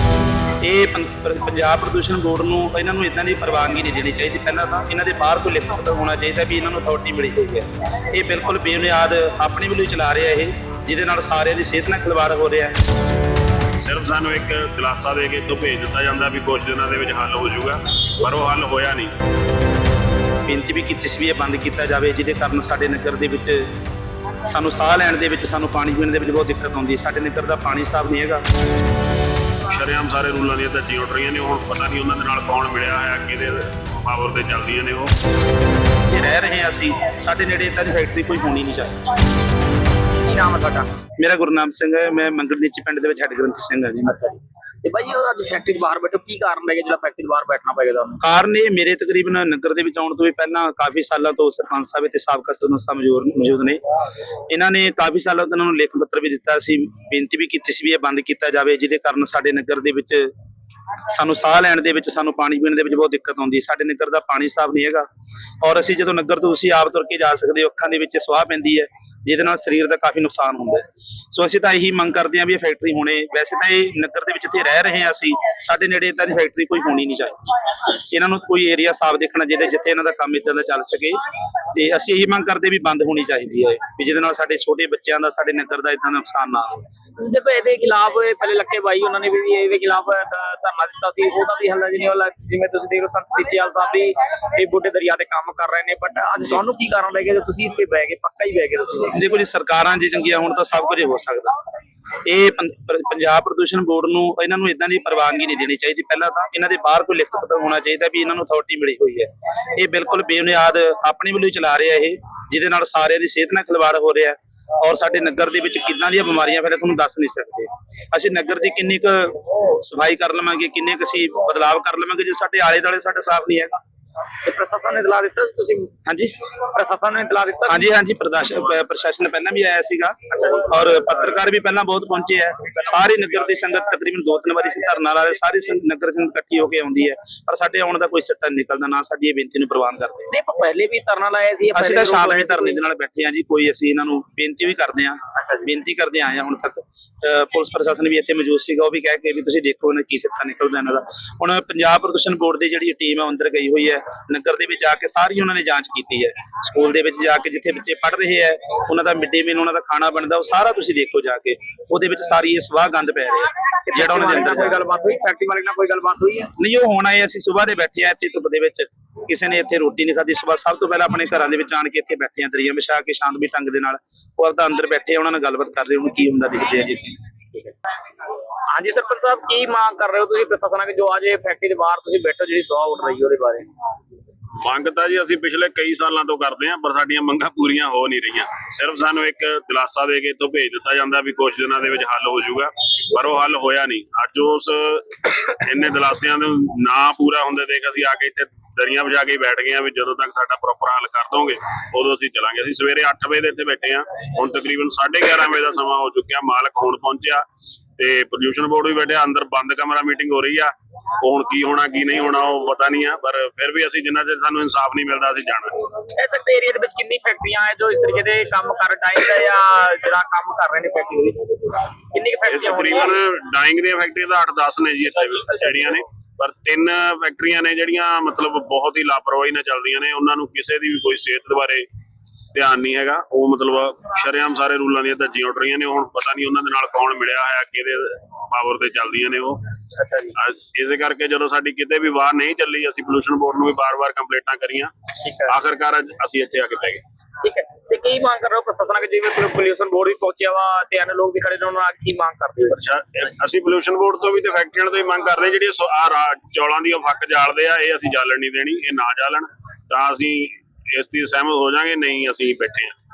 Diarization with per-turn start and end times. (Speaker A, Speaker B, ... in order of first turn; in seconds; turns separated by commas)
Speaker A: 0.6-12.7, Speaker B: 13.8-19.1, Speaker A: 20.4-23.7, Speaker A: 24.4-28.4, Speaker B: 29.6-35.1, Speaker A: 36.1-39.0, Speaker C: 40.2-40.9, Speaker A: 41.2-44.1, Speaker C: 44.1-48.2, Speaker A: 48.2-53.8, Speaker A: 54.5-60.3, Speaker A: 61.1-65.0, Speaker A: 65.6-81.2, Speaker A: 81.7-86.8, Speaker C: 87.2-99.1, Speaker A: 99.1-101.5, Speaker A: 102.2-123.8, Speaker C: 124.4-125.9, Speaker A: 126.0-126.3, Speaker C: 126.7-127.9, Speaker A: 127.7-140.3, Speaker C: 130.3-130.7, Speaker C: 132.8-133.9, Speaker C: 140.3-142.8, Speaker A: 141.7-164.8, Speaker C: 145.3-145.7, Speaker C: 163.9-166.5, Speaker A: 166.6-177.1, Speaker C: 178.7-183.7, Speaker B: 184.6-207.4, Speaker B: 208.0-215.8, Speaker C: 216.1-223.1, Speaker B: 222.5-231.8, Speaker C: 225.6-225.9, Speaker B: 232.5-239.6, Speaker C: 239.9-240.3, Speaker B: 240.3-244.9, Speaker C: 245.2-245.5, Speaker B: 245.5-247.0, Speaker C: 247.4-252.8, Speaker B: 252.7-263.0